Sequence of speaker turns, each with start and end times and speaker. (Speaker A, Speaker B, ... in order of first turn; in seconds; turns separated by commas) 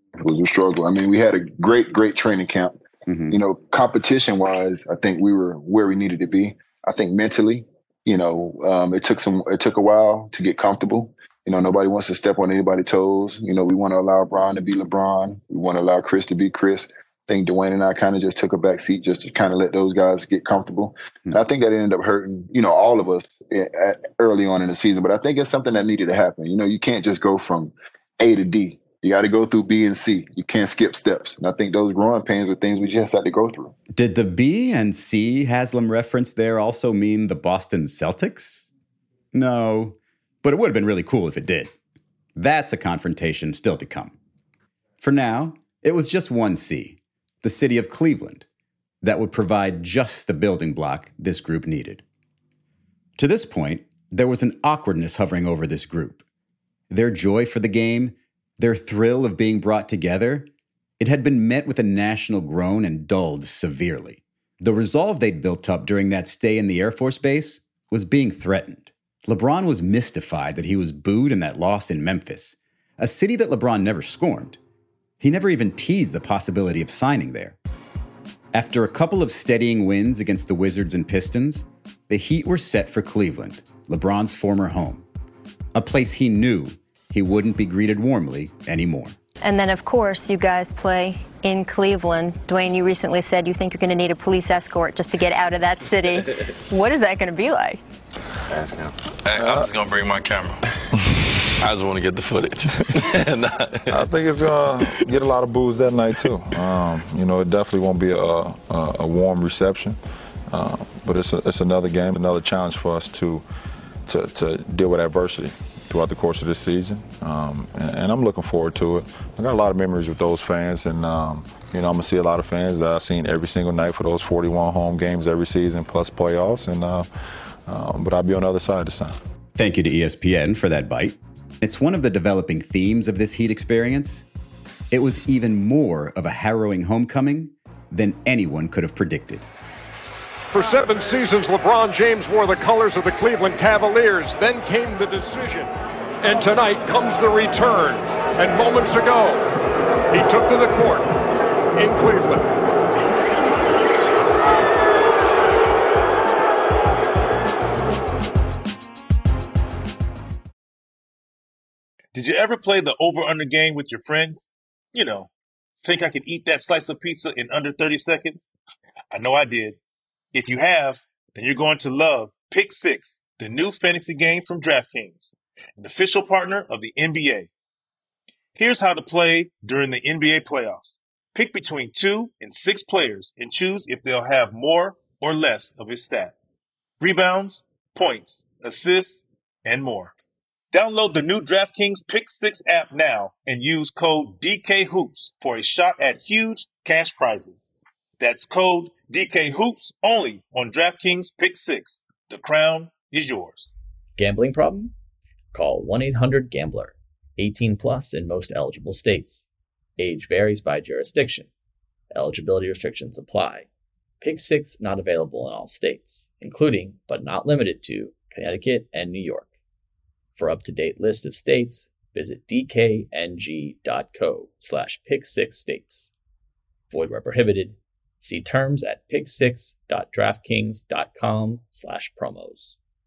Speaker A: 0.2-33.7, Speaker B: 3.1-3.3, Speaker B: 33.9-38.7, Speaker B: 39.3-41.7, Speaker B: 42.4-44.2, Speaker B: 45.0-48.5, Speaker B: 49.0-52.0, Speaker B: 53.2-56.2, Speaker B: 56.9-60.5, Speaker B: 61.0-74.6, Speaker B: 75.2-77.6, Speaker B: 78.5-85.0, Speaker B: 85.8-89.2, Speaker C: 89.4-97.8, Speaker D: 98.5-100.6, Speaker E: 99.4-99.7, Speaker D: 101.6-104.0, Speaker E: 103.9-113.5, Speaker E: 114.1-127.1, Speaker E: 127.7-129.2, Speaker B: 129.6-134.3, Speaker B: 134.9-139.5, Speaker F: 140.5-145.7, Speaker F: 146.2-149.4, Speaker F: 150.1-151.1, Speaker F: 151.8-152.5, Speaker G: 162.1-165.3, Speaker G: 165.8-168.5, Speaker G: 169.1-169.8, Speaker G: 170.3-177.5, Speaker G: 178.6-186.4, Speaker G: 187.0-190.1, Speaker G: 190.7-203.7, Speaker H: 204.2-204.9, Speaker H: 205.5-209.4, Speaker H: 210.0-211.5, Speaker H: 212.1-213.7, Speaker H: 214.2-219.5, Speaker H: 220.4-226.1, Speaker H: 226.9-232.8